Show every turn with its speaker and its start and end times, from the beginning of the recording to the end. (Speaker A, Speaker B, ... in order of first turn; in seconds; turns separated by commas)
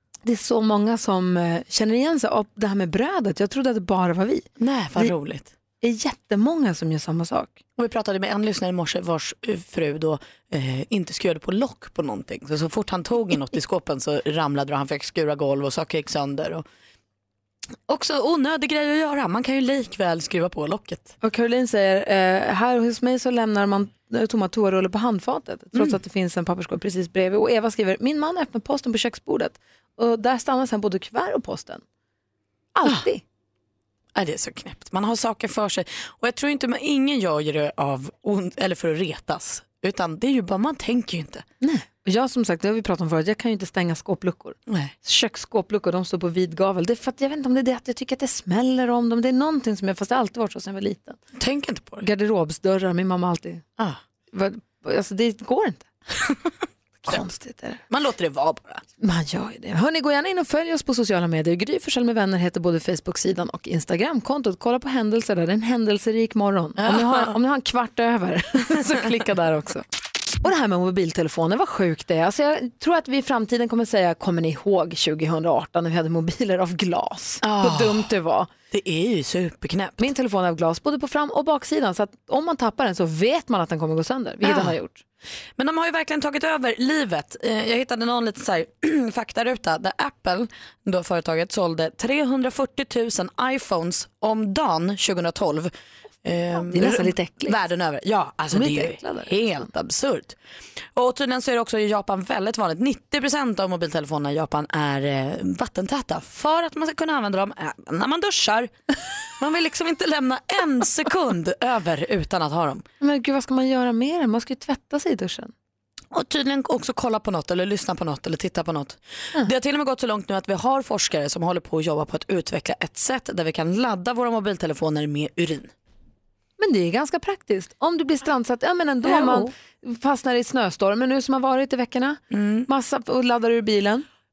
Speaker A: 0.2-4.5, Speaker B: 4.6-5.5, Speaker A: 5.8-7.6, Speaker B: 7.8-16.6, Speaker B: 17.9-21.1, Speaker A: 21.2-31.8, Speaker A: 32.8-33.2, Speaker B: 32.8-33.1, Speaker B: 34.1-41.5, Speaker A: 41.6-51.2, Speaker B: 44.7-44.9, Speaker B: 51.4-52.1, Speaker A: 52.0-53.6, Speaker A: 54.3-55.9, Speaker A: 57.0-57.8, Speaker B: 57.9-58.8, Speaker A: 59.0-69.8, Speaker B: 66.8-67.4, Speaker A: 70.4-78.5, Speaker B: 77.4-78.1, Speaker B: 78.7-80.1, Speaker A: 80.0-85.0, Speaker B: 84.4-84.8, Speaker B: 85.6-95.7, Speaker B: 96.2-100.4, Speaker A: 96.7-97.6, Speaker A: 98.5-99.3, Speaker B: 101.0-108.7, Speaker B: 109.4-112.8, Speaker A: 113.0-115.5, Speaker B: 116.1-125.7, Speaker A: 126.6-134.1, Speaker B: 129.0-129.5, Speaker B: 132.3-132.7